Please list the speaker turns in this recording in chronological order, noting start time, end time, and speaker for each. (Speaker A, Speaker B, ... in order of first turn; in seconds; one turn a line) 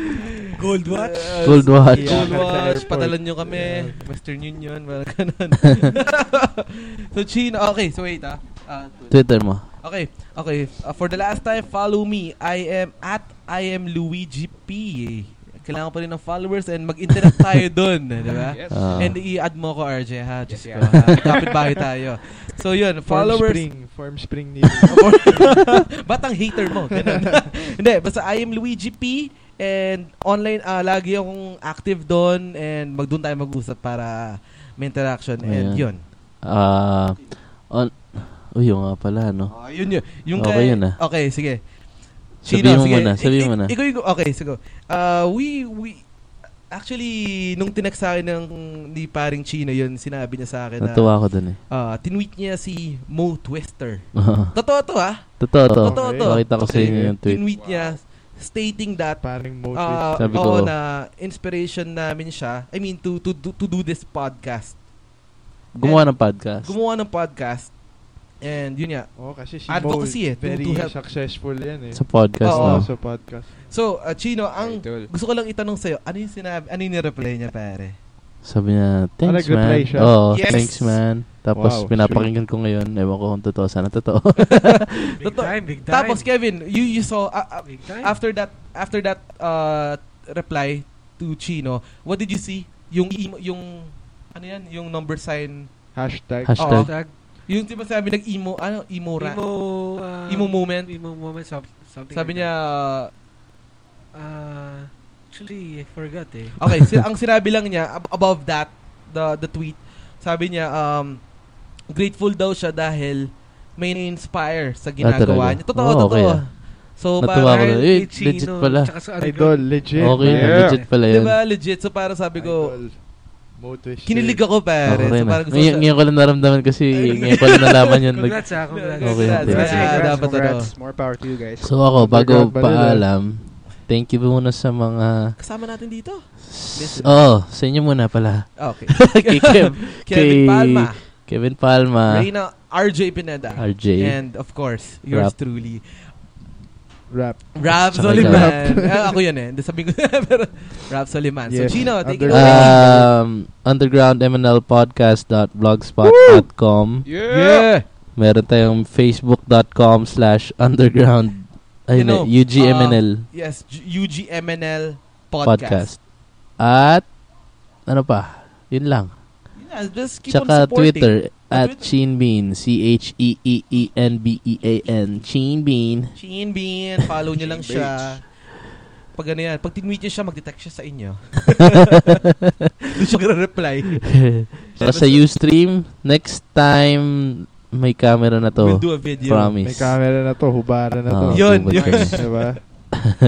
Speaker A: 0.2-23.7
Speaker B: 0.6-1.9
Speaker C: 1.4-2.3
Speaker D: 1.8-4.1
Speaker C: 9.1-9.7
Speaker E: 18.3-19.1
Speaker C: 18.7-19.2
Speaker E: 20.5-21.6
Speaker D: 23.1-25.7
Speaker A: 24.8-36.0
Speaker D: 26.9-27.4
Speaker C: 35.4-39.6
Speaker A: 39.5-41.8
Speaker C: 40.4-41.0
Speaker A: 42.4-46.1
Speaker C: 42.4-43.7
Speaker A: 46.7-64.8
Speaker C: 50.8-51.6
Speaker C: 54.2-54.6
Speaker C: 55.4-57.4
Speaker D: 55.8-57.1
Speaker E: 57.5-58.0
Speaker D: 59.2-60.6
Speaker C: 60.2-60.7
Speaker C: 65.7-66.7
Speaker A: 65.8-67.8
Speaker A: 68.4-69.1
Speaker D: 69.2-73.6
Speaker A: 69.7-71.0
Speaker C: 71.9-72.9
Speaker A: 72.4-73.0
Speaker A: 73.7-78.0
Speaker E: 74.5-75.1
Speaker C: 78.4-84.9
Speaker D: 79.2-80.3
Speaker A: 80.3-81.0
Speaker D: 81.5-82.3
Speaker A: 84.4-95.7
Speaker B: 85.2-86.3
Speaker B: 87.7-88.2
Speaker D: 96.0-96.7
Speaker C: 96.5-96.9
Speaker A: 96.6-99.4
Speaker B: 96.7-97.1
Speaker B: 99.2-102.5
Speaker A: 100.3-100.9
Speaker A: 102.1-103.1
Speaker B: 104.1-106.6
Speaker A: 106.6-111.3
Speaker A: 111.9-117.7
Speaker C: 115.0-116.6
Speaker C: 117.2-118.9
Speaker B: 117.4-120.8
Speaker D: 119.2-120.7
Speaker C: 120.0-121.4
Speaker E: 120.3-120.8
Speaker A: 121.0-122.8
Speaker D: 122.4-124.5
Speaker A: 124.1-125.9
Speaker C: 124.8-128.5
Speaker A: 126.9-130.7
Speaker B: 128.2-130.7
Speaker C: 129.0-129.7
Speaker D: 129.4-130.2
Speaker E: 129.5-131.8
Speaker C: 131.6-135.3
Speaker D: 131.8-133.1
Speaker A: 135.4-137.4
Speaker C: 136.5-142.3
Speaker A: 138.6-141.1
Speaker A: 142.1-146.1
Speaker C: 143.6-144.4
Speaker C: 145.1-145.3
Speaker D: 147.1-149.2
Speaker A: 147.6-153.0
Speaker C: 147.9-148.7
Speaker D: 151.5-153.1
Speaker C: 152.3-157.1
Speaker A: 156.1-156.4
Speaker E: 157.0-157.7
Speaker A: 157.3-157.8
Speaker C: 158.2-163.3
Speaker A: 161.9-165.9
Speaker C: 165.4-166.0
Speaker C: 166.6-167.1
Speaker C: 167.9-169.1
Speaker A: 169.6-171.9
Speaker C: 170.3-176.2
Speaker A: 176.2-178.5
Speaker E: 177.4-178.1
Speaker A: 179.1-182.1
Speaker A: 182.9-185.3
Speaker C: 184.1-190.0
Speaker A: 188.6-189.6
Speaker D: 189.6-192.7
Speaker C: 191.1-192.2
Speaker A: 191.3-192.5
Speaker E: 191.7-192.2